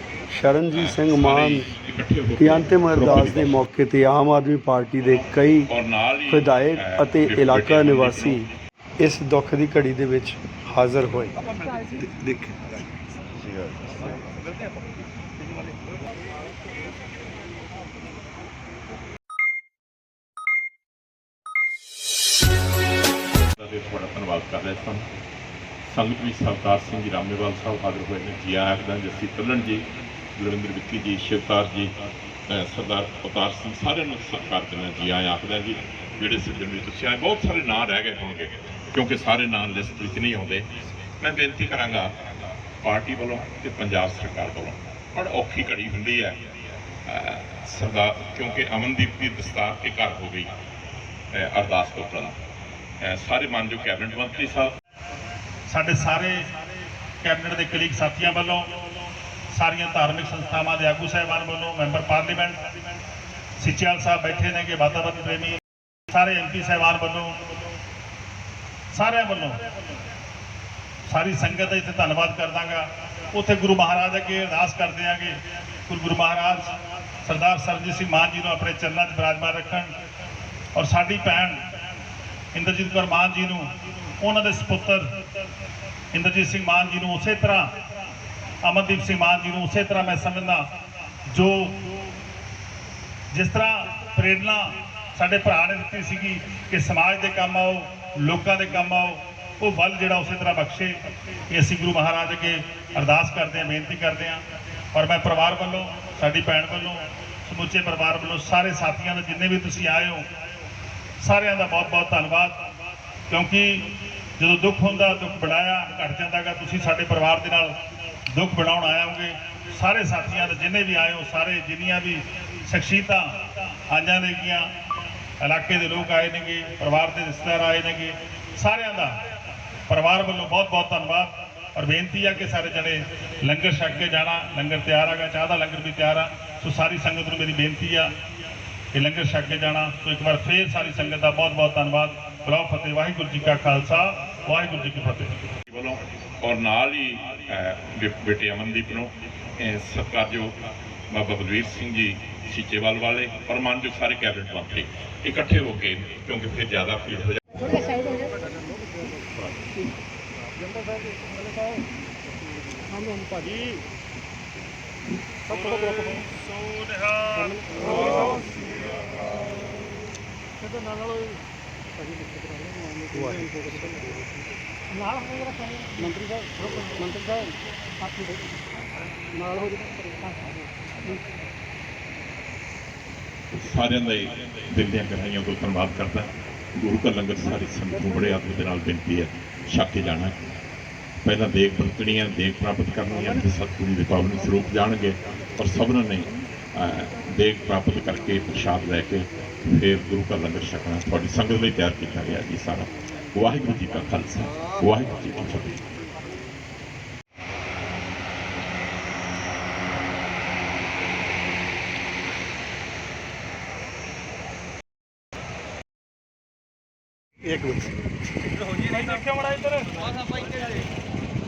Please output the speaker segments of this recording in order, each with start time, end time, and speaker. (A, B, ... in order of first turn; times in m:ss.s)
0:00.3-0:01.7 A
0:00.7-0:03.6 B
0:02.4-0:05.7 A
0:05.7-0:08.4 B
0:06.3-0:08.5 A
0:09.0-0:11.3 A
0:12.0-0:12.6 A
0:23.6-0:25.0 B
0:25.8-0:31.9 B
0:32.5-0:40.7 B
0:41.2-0:42.1 B
0:42.8-0:46.4 B
0:47.0-0:50.5 B
0:51.3-0:52.3 B
0:53.0-0:54.7 B
0:55.7-0:56.4 C
0:57.2-0:58.7 C
0:59.5-1:02.7 C
1:03.6-1:07.4 C
1:08.9-1:09.6 C
1:11.1-1:16.7 C
1:17.2-1:19.9 C
1:20.8-1:21.6 C
1:22.5-1:23.7 C
1:24.2-1:25.1 C
1:26.1-1:27.7 C
1:28.6-1:30.7 C
1:31.3-1:31.8 C
1:33.3-1:41.0 C
1:41.5-1:44.4 C
1:44.9-1:50.2 C
1:51.2-1:52.6 C
1:53.3-1:53.9 C
1:54.4-1:57.8 C
1:58.3-2:03.4 C
2:03.9-2:04.7 C
2:05.4-2:09.1 C
2:09.9-2:18.1 C
2:18.9-2:25.3 C
2:25.7-2:30.5 B
2:31.1-2:37.4 B
2:38.2-2:38.6 D
2:43.0-2:43.3 D
2:45.5-2:48.3 C
2:50.9-2:51.2 D
2:53.1-2:53.8 D
2:55.1-2:57.5 D
2:59.4-3:00.5 D
3:03.6-3:10.3 B
3:11.2-3:25.8 B
3:38.9-3:39.8 C